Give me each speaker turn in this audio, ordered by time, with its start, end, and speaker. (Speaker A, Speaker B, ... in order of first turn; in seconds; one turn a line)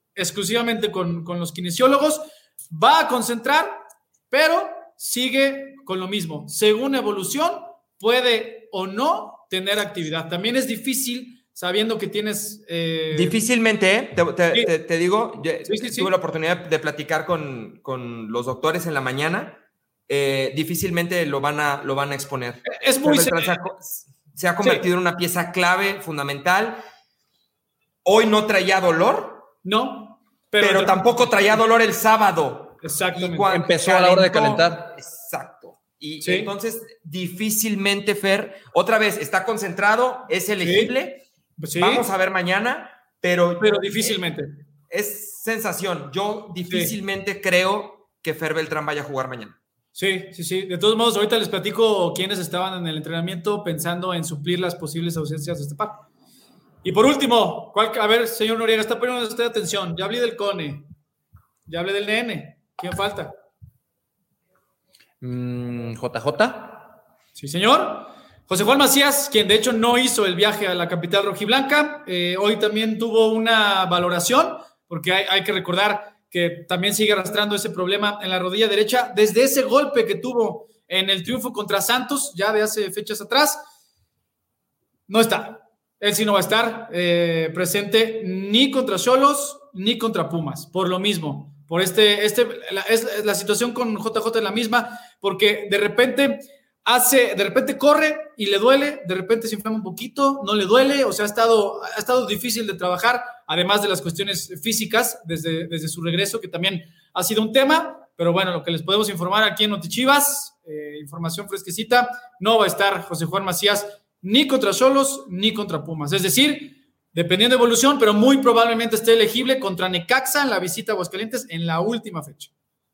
Speaker A: 0.1-13.4
Speaker B: 13.1-26.8
Speaker A: 15.7-16.1
Speaker A: 22.7-23.6
Speaker A: 24.6-24.9
Speaker B: 28.1-29.5
Speaker A: 29.6-31.3
Speaker B: 30.6-41.2
Speaker A: 32.8-33.5
Speaker C: 33.5-34.9
Speaker A: 36.2-36.5
Speaker A: 40.6-40.9
Speaker A: 41.6-42.0
Speaker B: 41.8-44.2
Speaker A: 43.6-44.6
Speaker B: 44.9-49.6
Speaker A: 46.7-46.9
Speaker A: 50.0-56.0
Speaker A: 56.8-60.9
Speaker A: 61.7-63.3
Speaker C: 65.2-66.9
Speaker A: 67.4-83.7
Speaker A: 85.1-122.5